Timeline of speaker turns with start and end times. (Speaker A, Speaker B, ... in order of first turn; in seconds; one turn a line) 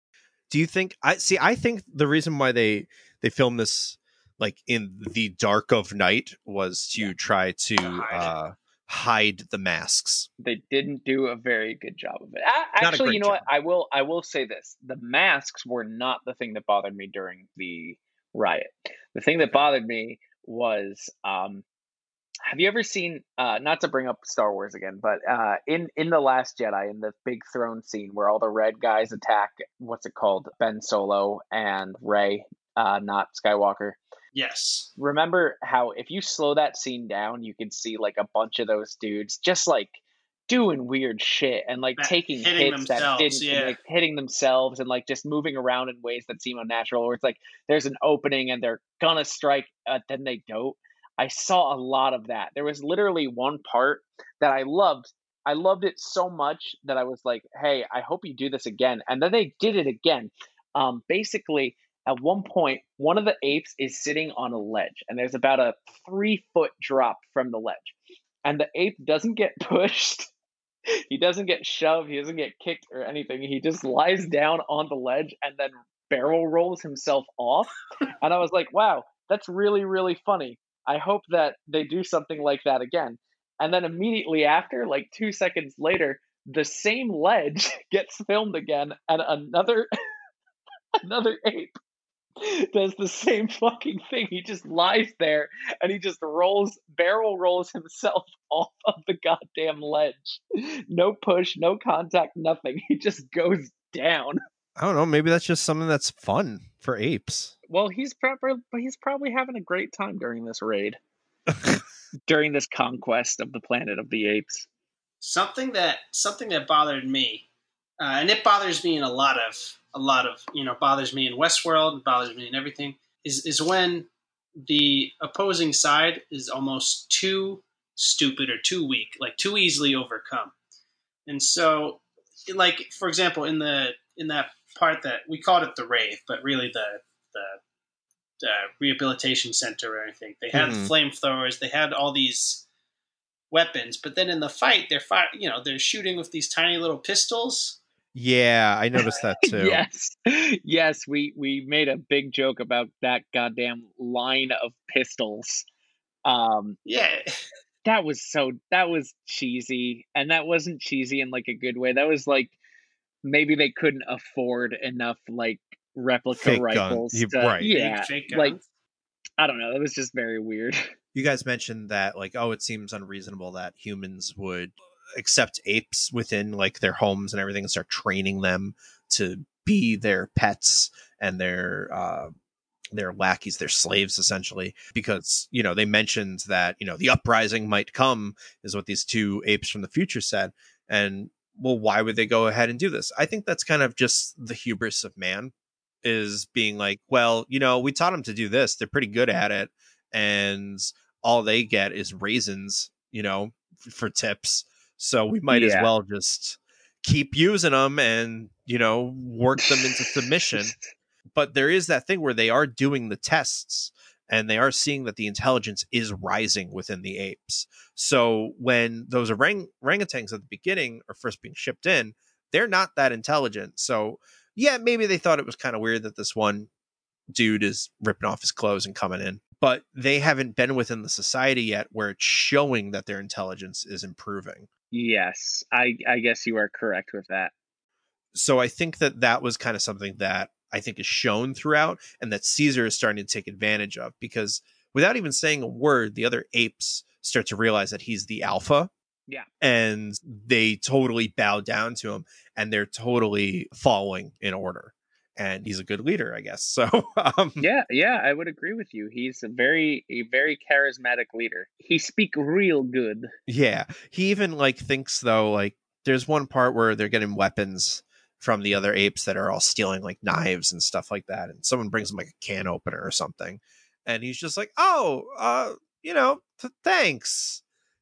Speaker A: 0.5-10.3
Speaker B: 7.8-8.3
Speaker C: 10.4-21.6
Speaker A: 12.8-13.4
Speaker A: 19.4-19.7
Speaker C: 22.5-34.0
Speaker B: 34.3-34.9
Speaker C: 35.0-40.0
Speaker C: 40.5-70.3
Speaker B: 42.0-43.8
Speaker C: 71.1-89.9
Speaker C: 91.0-91.8
Speaker C: 92.4-104.4
Speaker A: 104.8-107.5
Speaker C: 107.7-111.0
Speaker C: 112.3-114.7
Speaker B: 115.2-117.5
Speaker B: 118.0-124.1
Speaker B: 124.6-130.5
Speaker B: 131.3-137.6
Speaker B: 138.4-142.6
Speaker A: 140.5-140.9
Speaker B: 143.5-147.8
Speaker A: 148.1-149.8
Speaker C: 149.0-155.6
Speaker C: 156.2-156.8
Speaker B: 156.8-157.2
Speaker C: 157.8-162.5
Speaker C: 163.2-168.6
Speaker A: 166.3-167.7
Speaker B: 167.6-168.6
Speaker C: 169.4-170.9
Speaker A: 171.1-182.3
Speaker A: 182.9-210.7
Speaker C: 205.5-205.9
Speaker C: 209.6-210.9
Speaker A: 211.3-226.7
Speaker A: 227.3-234.7
Speaker C: 234.9-237.5
Speaker A: 238.3-248.9
Speaker A: 249.6-257.6
Speaker C: 257.6-263.3
Speaker A: 263.5-277.6